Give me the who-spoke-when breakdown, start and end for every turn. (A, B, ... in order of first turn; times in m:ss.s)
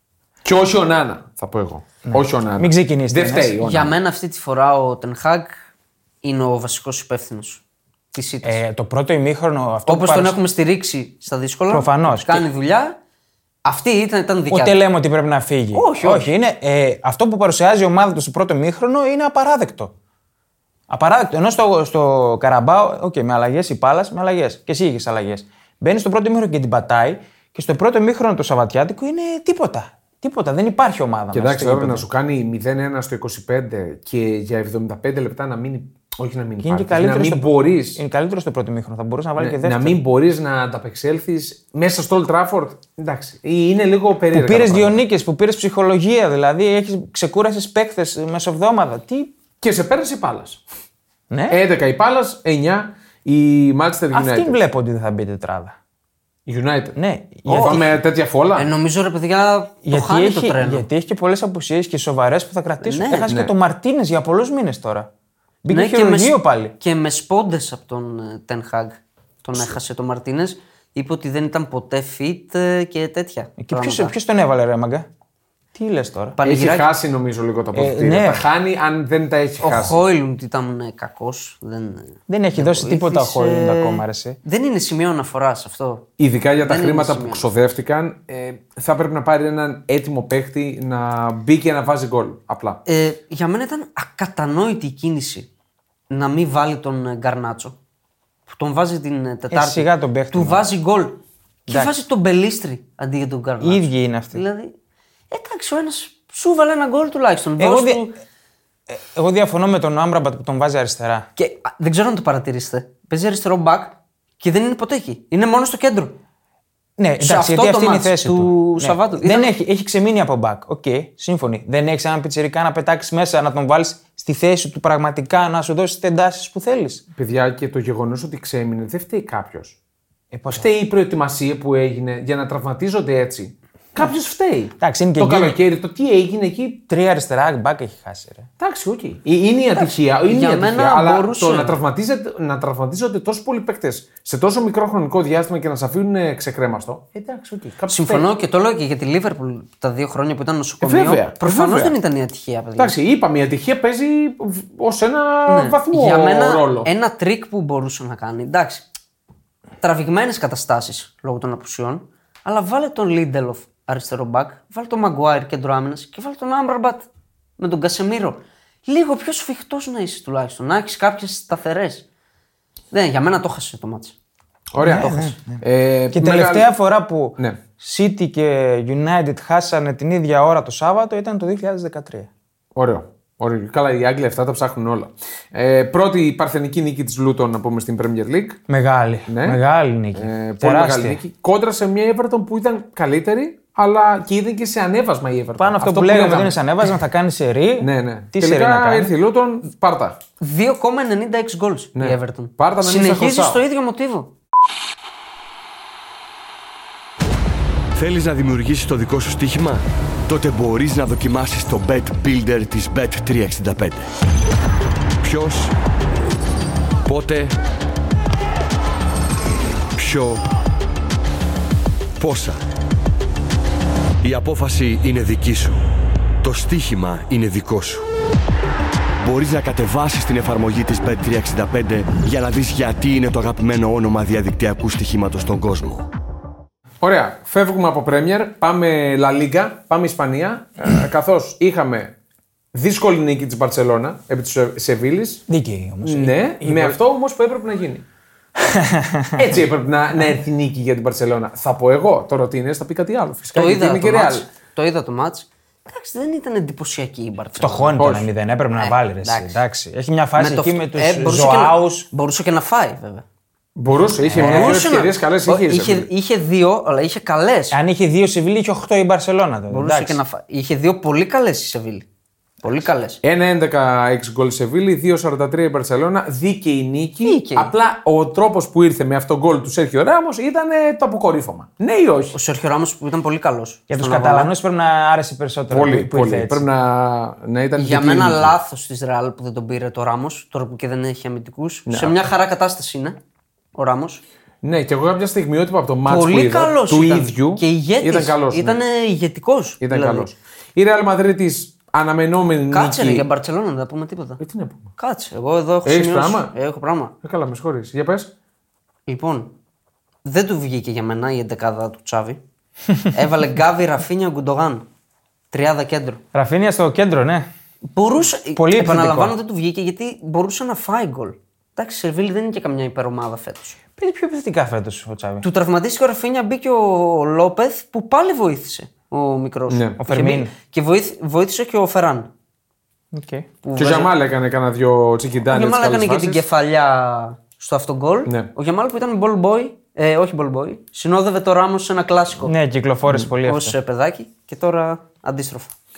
0:00.4-0:04.0 A
0:02.1-0:03.6 B
0:03.6-0:05.5 C
0:06.2-0:07.6 C
0:08.1-0:08.6 C
0:08.4-0:10.4 B
0:09.9-0:13.0 C
0:11.7-0:12.5 B
0:13.6-0:14.8 C
0:14.5-0:19.9 B
0:15.7-0:16.3 C
0:20.9-0:32.1 B
0:31.3-0:38.0 A
0:36.6-0:40.0 B
0:39.4-0:45.0 A
0:44.3-0:49.3 B
0:49.6-0:50.6 A
0:51.3-0:51.6 B
0:51.5-0:54.6 A
0:54.1-0:55.8 B
0:56.5-0:58.7 A
0:57.0-0:57.9 B
0:57.6-0:57.8 C
0:58.6-1:00.8 C
0:59.8-1:05.1 B
1:02.8-1:03.3 C
1:05.6-1:06.8 B
1:05.7-1:14.1 C
1:13.6-1:15.1 B
1:15.8-1:16.4 B
1:16.4-1:16.9 C
1:16.4-1:20.0 A
1:17.7-1:18.4 B
1:19.6-1:26.0 C
1:22.3-1:24.4 B
1:26.2-1:32.8 A
1:26.6-1:27.5 C
1:32.9-1:35.5 C
1:36.1-1:37.8 C
1:38.5-1:44.7 C
1:39.5-1:40.7 B
1:41.7-1:41.9 B
1:43.6-1:44.4 B
1:45.3-1:48.1 C
1:47.6-1:48.1 B
1:48.9-1:51.3 B
1:51.4-1:56.2 C
1:57.0-2:07.0 B
1:57.2-1:59.5 C
2:07.2-2:09.8 A
2:10.3-2:10.7 B
2:10.5-2:16.8 A
2:14.8-2:15.6 B
2:16.9-2:18.5 B
2:18.6-2:28.3 A
2:19.7-2:21.8 C
2:27.9-2:33.0 C
2:30.8-2:32.0 A
2:32.8-2:36.9 A
2:35.5-2:38.8 C
2:39.8-2:47.1 C
2:47.6-2:52.0 C
2:52.9-2:54.2 C
2:54.7-2:56.7 A
2:54.8-3:02.3 B
3:02.8-3:08.6 A
3:08.7-3:11.2 B
3:09.3-3:09.6 A
3:10.2-3:16.6 A
3:15.6-3:19.1 B
3:17.8-3:20.2 A
3:20.4-3:24.3 C
3:22.0-3:23.6 A
3:28.0-3:34.1 D
3:35.2-3:35.7 D
3:37.0-3:37.6 D
3:40.0-3:40.4 D
3:42.2-3:42.6 D
3:44.2-3:45.8 D
3:46.4-3:48.1 D
3:49.2-3:56.1 D
3:57.0-4:02.1 A
4:02.7-4:05.4 A
4:05.5-4:07.0 B
4:06.0-4:08.0 A
4:08.6-4:09.6 B
4:09.4-4:14.5 A
4:13.5-4:18.0 C
4:17.6-4:22.1 B
4:18.0-4:18.3 A
4:18.8-4:19.6 C
4:20.4-4:23.2 C
4:23.8-4:26.1 A
4:24.2-4:24.9 B
4:24.4-4:27.8 C
4:27.7-4:30.2 B
4:29.7-4:32.1 C
4:32.6-4:33.2 C
4:33.2-4:42.4 A
4:37.2-4:37.7 C
4:42.3-4:44.5 C
4:43.9-4:46.6 B
4:45.7-4:48.6 A
4:47.8-4:53.2 C
4:51.9-4:52.2 A
4:53.8-4:54.2 C
4:54.6-4:58.8 A
4:56.1-5:00.3 C
4:59.8-5:03.2 A
5:02.7-5:04.4 C
5:04.4-5:04.9 A
5:05.0-5:07.1 C
5:05.8-5:06.5 A
5:07.2-5:08.3 A
5:09.1-5:09.5 C
5:10.2-5:12.4 C
5:13.1-5:14.8 C
5:15.5-5:16.2 C
5:16.3-5:17.5 B
5:17.9-5:23.8 C
5:18.6-5:19.4 B
5:24.0-5:25.4 B
5:25.4-5:32.3 C
5:29.7-5:30.0 A
5:30.0-5:30.5 B
5:33.1-5:33.5 B
5:33.6-5:34.1 C
5:33.8-5:36.4 A
5:35.5-5:42.5 C
5:42.4-5:43.8 B
5:43.4-5:45.7 C